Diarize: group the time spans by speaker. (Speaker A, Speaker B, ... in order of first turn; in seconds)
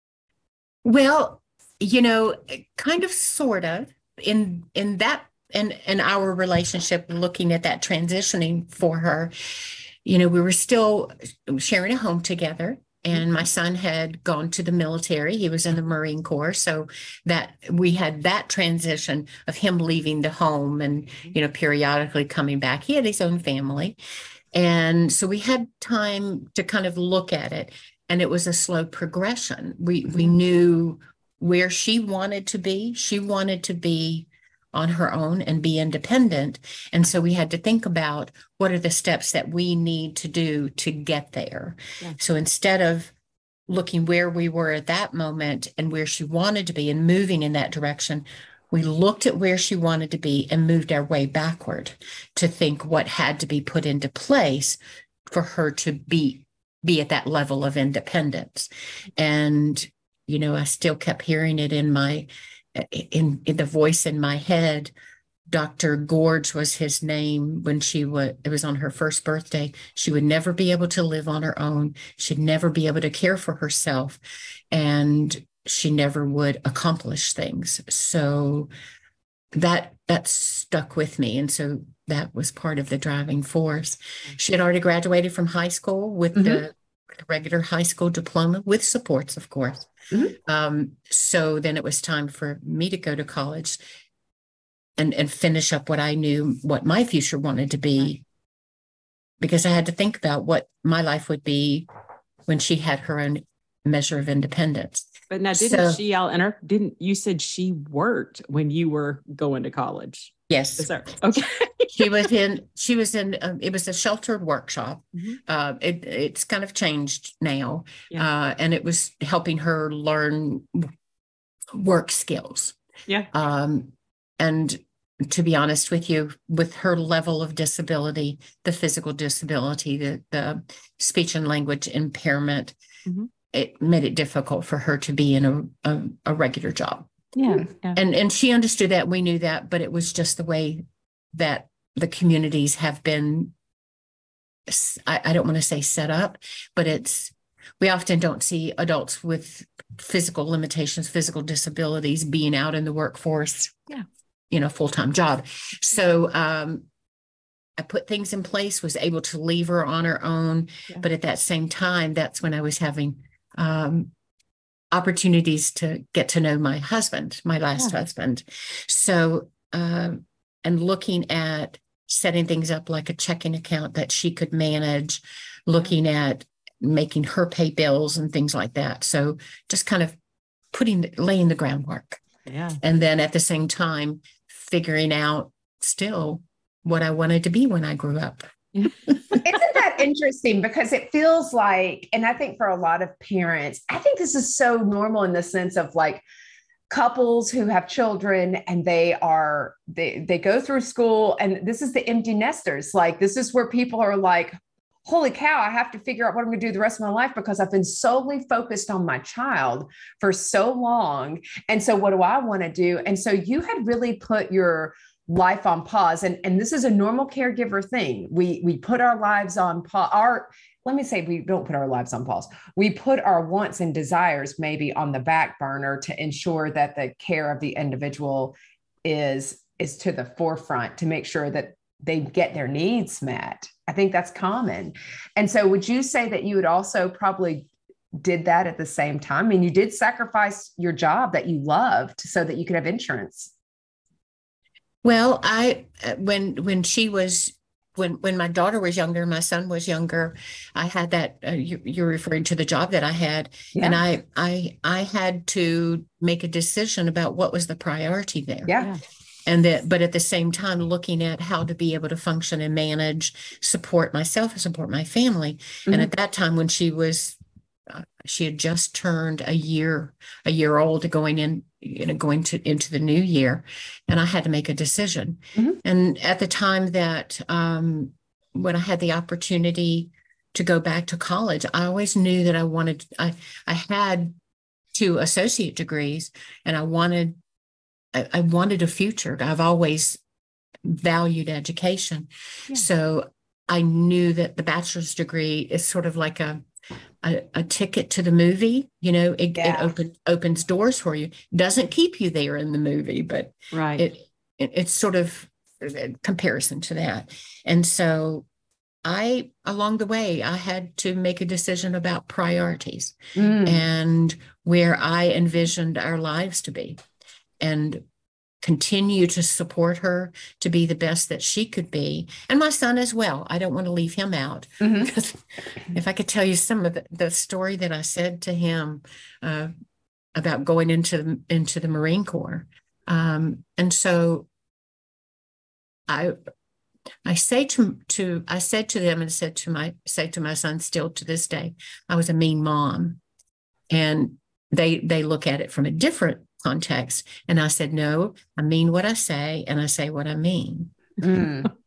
Speaker A: 0.8-24.0, 24.5-43.1, 43.7-54.8, 55.3-64.9, 65.5-74.2, 74.7-78.7, 79.5-89.9, 90.5-93.8, 95.0-98.2, 99.4-101.9, 102.5-106.0, 110.5-120.9, 121.7-122.8, 123.3-132.8, 133.5-137.1, 137.9-140.8, 141.3-143.5, 144.7-153.9, 154.5-156.9, 157.8-164.1, 164.9-180.2, 180.7-182.2, 182.8-188.4, 189.1-189.4, 245.0-258.7, 259.5-284.4, 284.9-287.4, 288.1-290.2, 290.8-296.6, 297.2-308.5, 309.0-317.0, 317.6-318.0, 318.6-329.7, 330.4-334.5, 336.1-336.4, 337.2-343.2, 343.9-350.9
Speaker B: 86.3-86.6, 90.1-90.4, 189.4-196.2, 196.9-243.5, 253.7-254.0, 258.7-258.9, 299.6-299.9, 313.4-313.9, 324.8-325.1, 351.2-351.7
Speaker C: 105.3-112.1, 115.2-115.4, 137.4-138.0, 182.5-182.8, 303.7-304.1